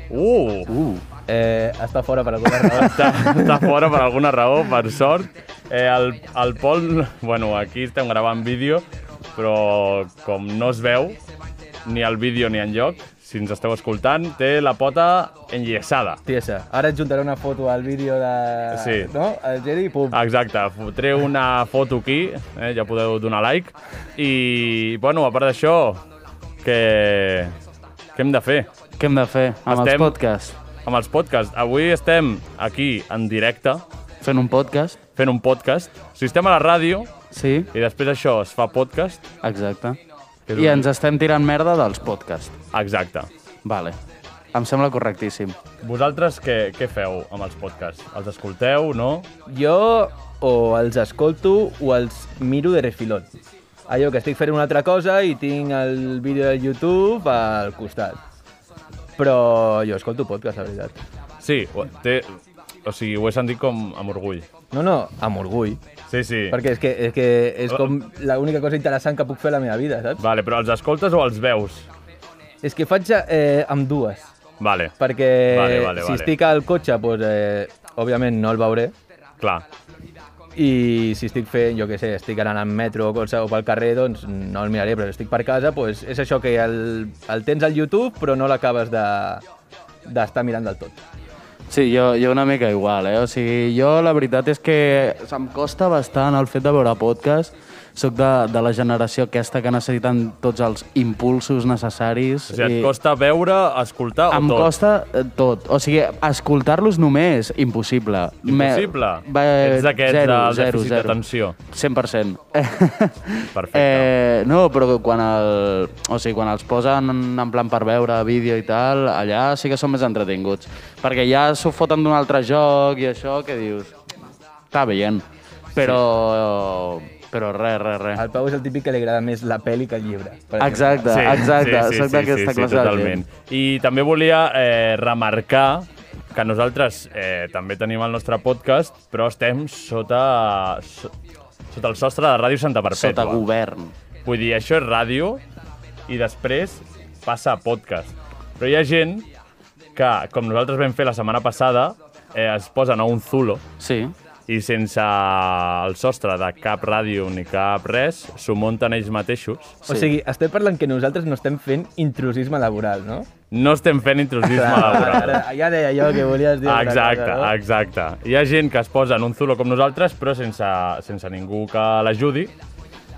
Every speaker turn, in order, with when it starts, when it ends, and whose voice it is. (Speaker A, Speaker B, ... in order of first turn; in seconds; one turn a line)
Speaker A: 0.1-0.7
Speaker B: 0.7-1.0
Speaker C: 1.3-3.6
Speaker A: 2.8-8.8
Speaker A: 9.4-11.2
Speaker A: 11.8-16.2
Speaker C: 16.3-20.2
Speaker A: 18.7-19.1
Speaker A: 20.1-26.0
Speaker A: 26.6-27.6
Speaker A: 28.2-28.7
Speaker B: 29.0-30.6
Speaker A: 29.7-30.2
Speaker A: 30.8-33.8
Speaker B: 34.2-35.0
Speaker A: 35.2-37.1
Speaker B: 37.3-37.7
Speaker A: 37.7-39.2
Speaker B: 39.4-40.0
Speaker A: 40.5-40.9
Speaker B: 40.5-42.6
Speaker A: 42.7-43.3
Speaker B: 43.6-44.0
Speaker B: 44.5-45.6
Speaker A: 45.8-49.3
Speaker C: 49.5-53.3
Speaker C: 53.9-58.2
Speaker C: 59.2-61.0
Speaker A: 61.4-64.5
Speaker C: 64.7-65.8
Speaker A: 66.1-66.6
Speaker C: 66.5-70.2
Speaker A: 70.2-71.9
Speaker C: 72.6-74.3
Speaker A: 74.6-74.9
Speaker C: 75.0-79.0
Speaker A: 75.5-76.3
Speaker A: 79.4-79.7
Speaker C: 80.5-89.4
Speaker C: 90.1-91.0
Speaker B: 91.7-102.9
Speaker A: 102.5-104.7
Speaker B: 104.3-111.2
Speaker A: 108.5-111.6
Speaker B: 111.7-124.0
Speaker A: 113.5-114.1
Speaker B: 124.7-125.2
Speaker B: 125.8-128.2
Speaker C: 128.2-131.3
Speaker B: 130.6-133.2
Speaker A: 131.1-141.1
Speaker A: 141.7-143.4
Speaker B: 142.9-143.9
Speaker A: 144.2-145.4
Speaker A: 146.1-149.3
Speaker A: 150.0-153.6
Speaker B: 153.8-154.1
Speaker A: 154.5-159.8
Speaker C: 159.9-163.3
Speaker A: 163.5-165.4
Speaker C: 164.5-167.6
Speaker A: 166.6-172.5